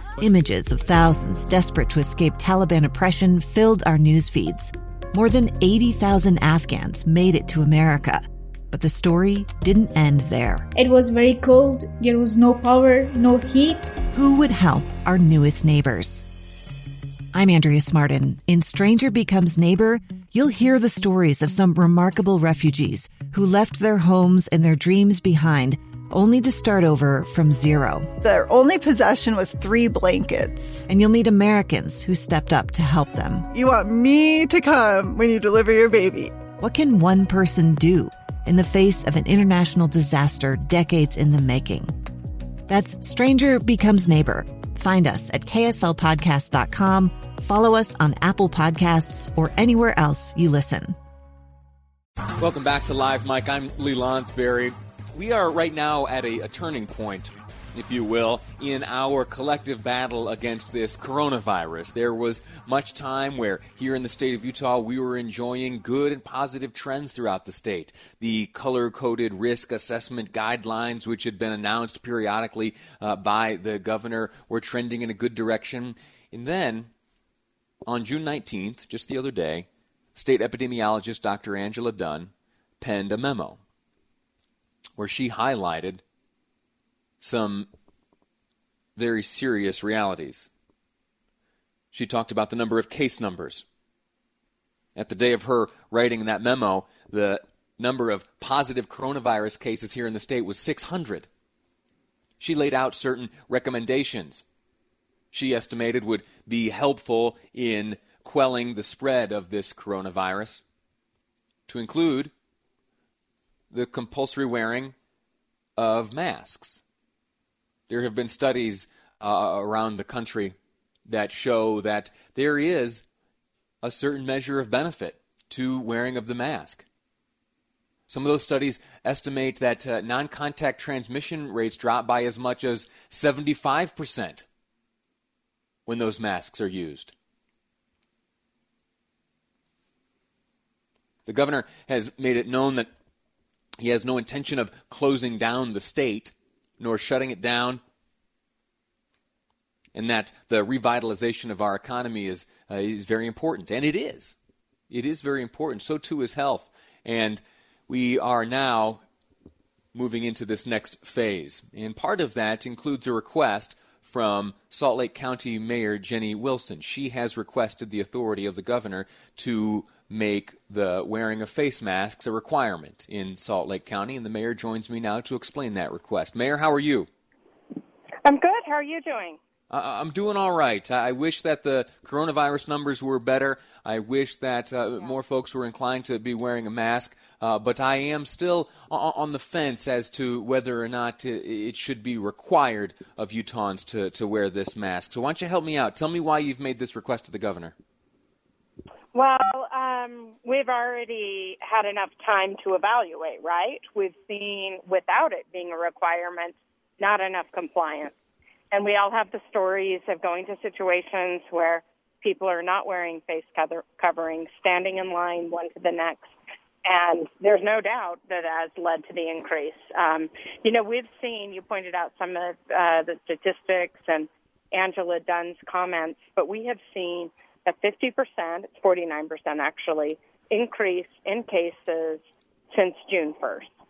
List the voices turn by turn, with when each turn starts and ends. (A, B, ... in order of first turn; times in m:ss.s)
0:00.2-0:10.7 A
0:10.7-0:14.0 B
0:14.1-0:16.2 A
0:17.3-0:28.1 A
0:28.2-0:30.8 C
0:30.9-0:33.4 A
0:33.5-0:36.4 C
0:36.6-0:41.9 A
0:42.7-0:50.9 A
0:52.4-1:16.9 D
1:17.8-1:23.6 D
1:25.0-1:26.0 D
1:27.2-1:27.7 D
1:29.0-1:30.5 D
1:31.9-1:33.6 D
1:34.9-1:41.3 D
1:42.4-1:44.4 D
1:45.3-1:50.6 D
1:51.7-1:52.3 D
1:53.7-1:54.9 D
1:55.8-1:56.8 D
1:57.9-2:00.5 D
2:01.1-2:03.0 D
2:03.8-2:06.8 D
2:08.1-2:14.4 D
2:15.9-2:17.1 D
2:21.2-2:22.9 D
2:23.8-2:27.8 D
2:29.9-2:34.4 D
2:34.9-2:39.0 D
2:39.9-2:57.1 D
2:58.2-2:59.4 E
2:59.7-3:17.7 D
3:19.1-3:28.1 E
3:28.7-3:36.3 E
3:36.8-3:53.7 E